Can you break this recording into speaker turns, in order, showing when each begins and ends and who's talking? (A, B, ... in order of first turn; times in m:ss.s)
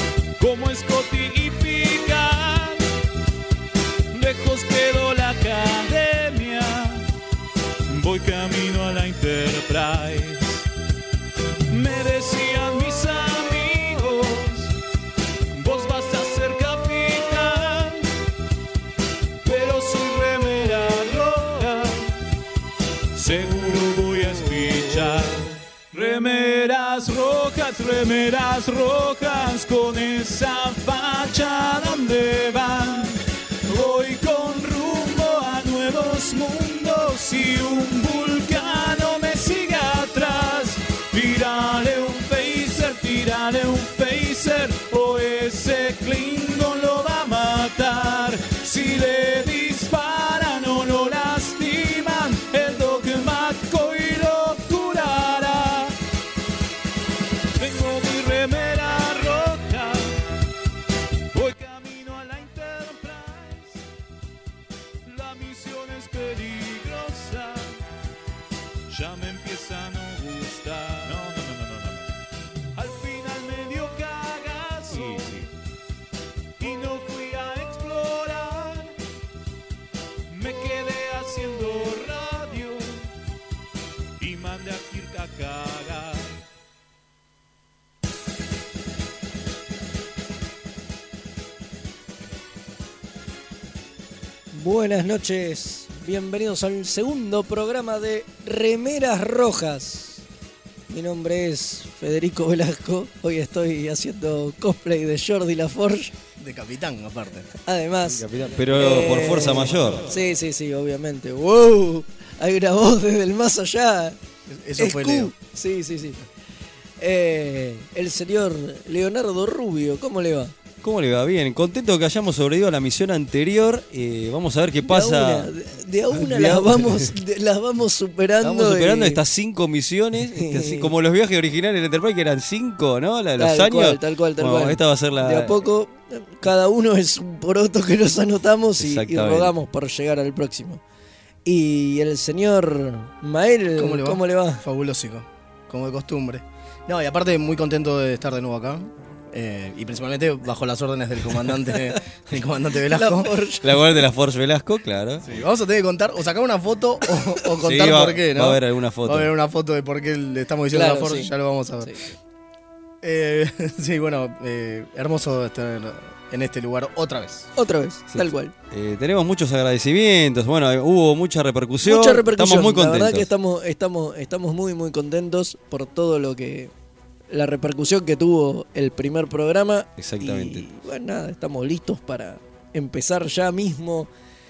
0:00.4-0:02.9 A
0:04.1-0:07.1 A
0:07.9-0:10.6 A
0:11.7-0:14.7 A
0:15.5-0:18.1 A
0:19.4-0:22.1 A
0:23.1-0:56.0 A
0:57.6-1:00.2 A
1:01.3-1:03.8 A
1:05.0-1:07.8 A
1:08.9-1:12.1 A
1:12.7-1:15.5 A
1:14.9-1:15.2 B
1:16.6-1:18.9 A
1:20.3-1:23.1 A
1:24.2-1:26.4 A
1:34.5-1:40.2 C
1:40.9-1:46.1 C
1:46.4-1:47.5 D
1:47.6-1:54.2 C
1:48.0-1:50.1 B
1:54.5-1:55.3 D
1:54.8-1:56.2 C
1:57.0-2:00.5 C
2:00.8-2:05.5 B
2:04.8-2:09.2 C
2:06.1-2:07.1 B
2:08.4-2:15.6 B
2:10.3-2:10.9 C
2:13.4-2:20.8 C
2:18.8-2:19.5 B
2:21.4-2:24.6 C
2:23.8-2:33.3 D
2:32.8-2:33.7 C
2:33.6-2:35.2 B
2:35.2-2:41.9 D
2:37.6-2:39.3 B
2:40.7-2:42.1 C
2:43.0-2:47.5 D
2:47.6-2:48.5 C
2:48.1-2:53.3 B
2:51.8-2:56.7 C
2:57.3-3:04.1 C
3:00.0-3:00.6 B